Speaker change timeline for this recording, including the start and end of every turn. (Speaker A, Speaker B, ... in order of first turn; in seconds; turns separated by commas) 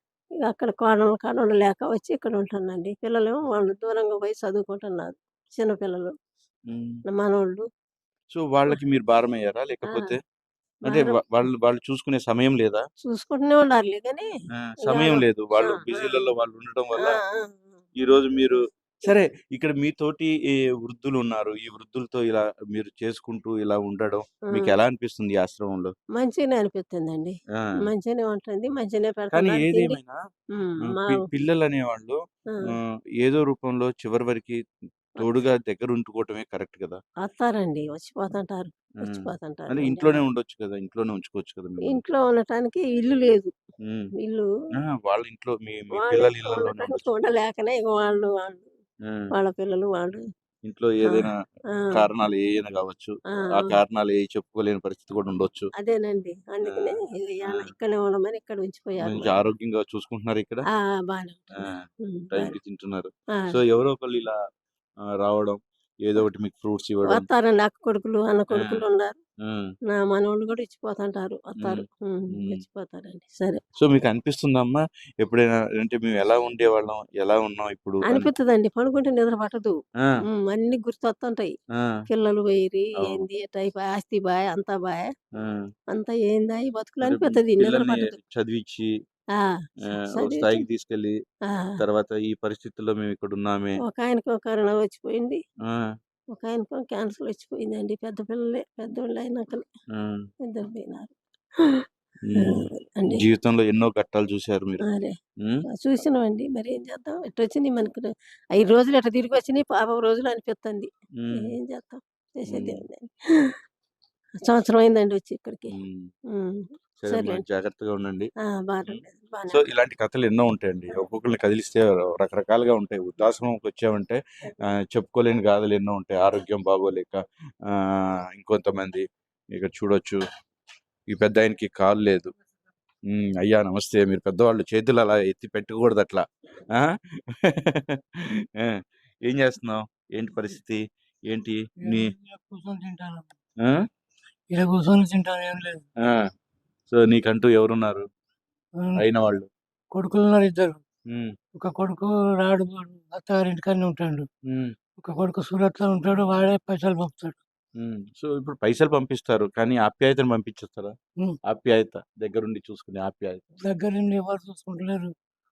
Speaker A: 0.4-6.1, Speaker B: 6.7-7.0, Speaker A: 7.1-7.6, Speaker B: 8.3-10.2, Speaker A: 9.8-10.2, Speaker A: 10.9-11.2, Speaker B: 10.9-12.8, Speaker A: 13.0-14.3, Speaker B: 14.7-17.1, Speaker A: 14.8-16.3, Speaker A: 17.0-17.8, Speaker B: 18.0-25.9, Speaker A: 24.5-24.8, Speaker A: 26.2-30.0, Speaker B: 29.3-30.2, Speaker A: 30.6-31.3, Speaker B: 31.0-32.2, Speaker B: 33.2-34.6, Speaker B: 35.2-37.0, Speaker A: 37.2-40.2, Speaker B: 39.0-42.0, Speaker A: 41.8-43.5, Speaker A: 44.2-44.5, Speaker B: 44.8-47.1, Speaker A: 45.9-48.7, Speaker A: 49.3-50.2, Speaker B: 50.7-51.3, Speaker A: 51.0-52.0, Speaker B: 51.9-55.7, Speaker A: 53.3-53.8, Speaker A: 55.8-59.4, Speaker B: 56.6-57.7, Speaker B: 59.0-60.6, Speaker A: 60.8-62.5, Speaker B: 62.3-64.4, Speaker B: 65.2-67.3, Speaker A: 67.0-69.2, Speaker B: 68.5-68.9, Speaker A: 69.9-73.6, Speaker B: 73.8-78.3, Speaker A: 78.1-79.7, Speaker A: 80.3-81.5, Speaker A: 82.1-85.1, Speaker A: 85.9-88.2, Speaker B: 87.0-88.9, Speaker B: 89.9-91.2, Speaker A: 90.0-90.7, Speaker A: 91.5-91.8, Speaker B: 91.8-93.8, Speaker A: 93.8-95.4, Speaker A: 96.3-99.7, Speaker B: 99.9-100.2, Speaker A: 100.4-101.2, Speaker A: 102.4-103.2, Speaker B: 102.4-104.8, Speaker A: 104.8-105.2, Speaker A: 105.8-113.6, Speaker B: 111.2-111.5, Speaker B: 112.5-112.8, Speaker A: 114.4-115.7, Speaker B: 115.7-116.1, Speaker A: 116.3-117.4, Speaker B: 117.0-118.3, Speaker A: 118.7-119.7, Speaker B: 118.9-130.2, Speaker B: 131.1-132.3, Speaker B: 133.1-136.9, Speaker B: 137.5-138.0, Speaker B: 138.6-142.1, Speaker C: 141.8-143.3, Speaker C: 144.5-145.8, Speaker B: 146.9-148.1, Speaker C: 148.8-149.1, Speaker B: 149.0-149.5, Speaker C: 149.9-150.8, Speaker C: 151.6-154.3, Speaker B: 154.5-154.8, Speaker C: 155.0-157.4, Speaker B: 157.8-160.9, Speaker B: 161.5-163.4, Speaker C: 163.6-165.1